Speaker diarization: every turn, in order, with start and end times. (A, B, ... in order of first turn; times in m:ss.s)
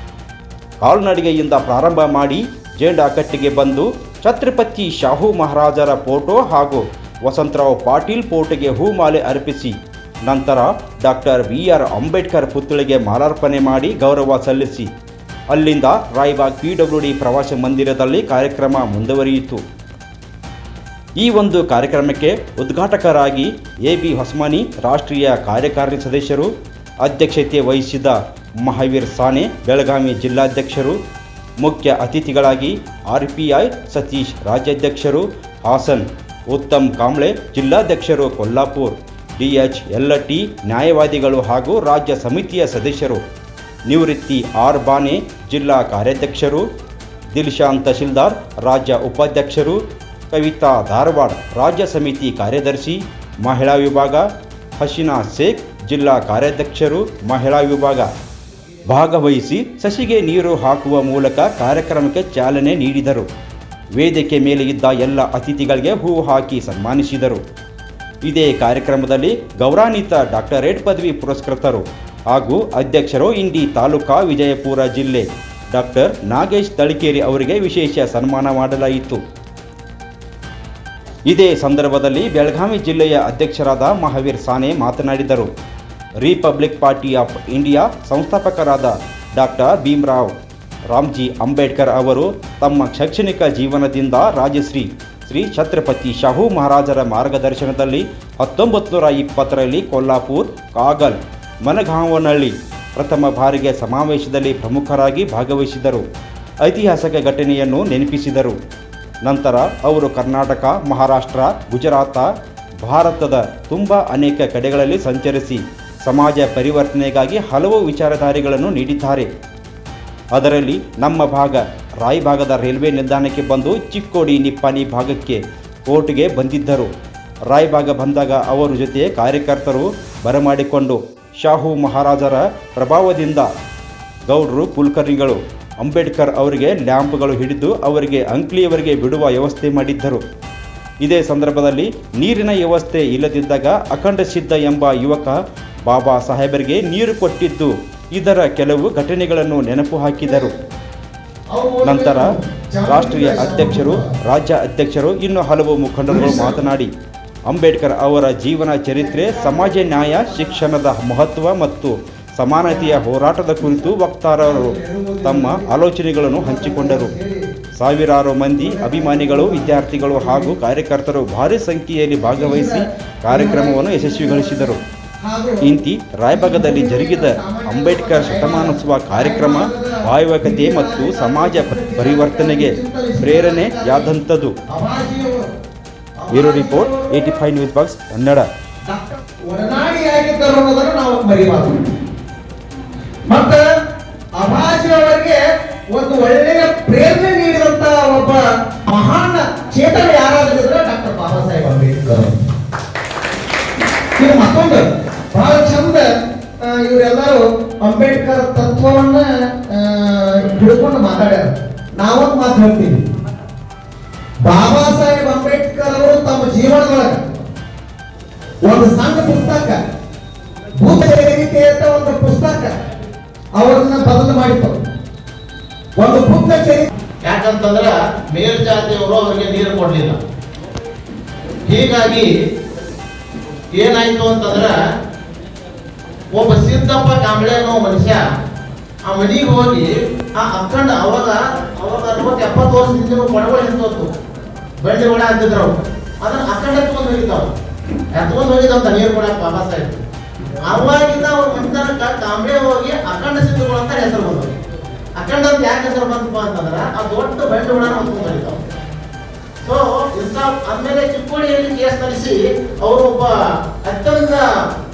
0:00.8-0:09.8 A
0:10.3-0:14.9 A
0:15.5-0:19.6 A
0:21.2-0:26.5 A
0:27.0-0:31.0 A
0:31.6-0:43.2 A
0:43.9-0:46.6 A
0:47.3-0:54.3 A
0:54.8-0:58.1 A
0:58.9-1:03.3 A
1:04.0-1:07.4 A
1:08.2-1:19.2 A
1:21.3-1:25.5 A
1:26.2-1:30.3 A
1:30.9-1:46.0 A
1:46.6-1:48.6 A
1:49.2-1:52.3 A
1:52.8-1:59.3 A
2:00.3-2:06.9 A
2:07.5-2:13.5 A
2:14.3-2:20.2 A
2:21.0-2:30.5 A
2:30.2-2:30.5 B
2:31.5-2:34.1 B
2:31.8-2:32.3 A
2:32.8-2:36.9 A
2:36.0-2:36.6 B
2:37.5-2:47.1 A
2:39.0-2:40.7 B
2:42.6-2:43.0 B
2:44.4-2:45.8 B
2:46.3-2:47.5 B
2:47.8-2:54.8 A
2:48.6-2:50.6 B
2:52.2-2:55.6 B
2:55.6-3:04.5 A
2:56.3-3:04.1 B
3:04.7-3:05.4 B
3:06.2-3:07.4 B
3:06.3-3:08.5 A
3:08.9-3:11.8 B
3:13.3-3:13.6 B
3:14.4-3:15.4 B
3:15.9-3:22.3 B
3:24.2-3:26.0 B
3:26.6-3:33.0 B
3:34.4-3:37.3 B
3:38.6-3:39.8 B
3:40.8-3:42.7 B
3:43.6-3:44.8 B
3:46.0-3:46.9 B
3:47.2-3:50.2 C
3:51.7-3:52.3 C
3:53.8-3:54.7 C
3:56.3-3:58.2 C
3:59.1-3:59.9 C
4:00.4-4:04.1 C
4:04.8-4:07.5 C
4:08.1-4:10.0 C
4:10.7-4:14.6 C
4:15.2-4:18.6 C
4:19.6-4:23.3 C
4:23.8-4:24.4 C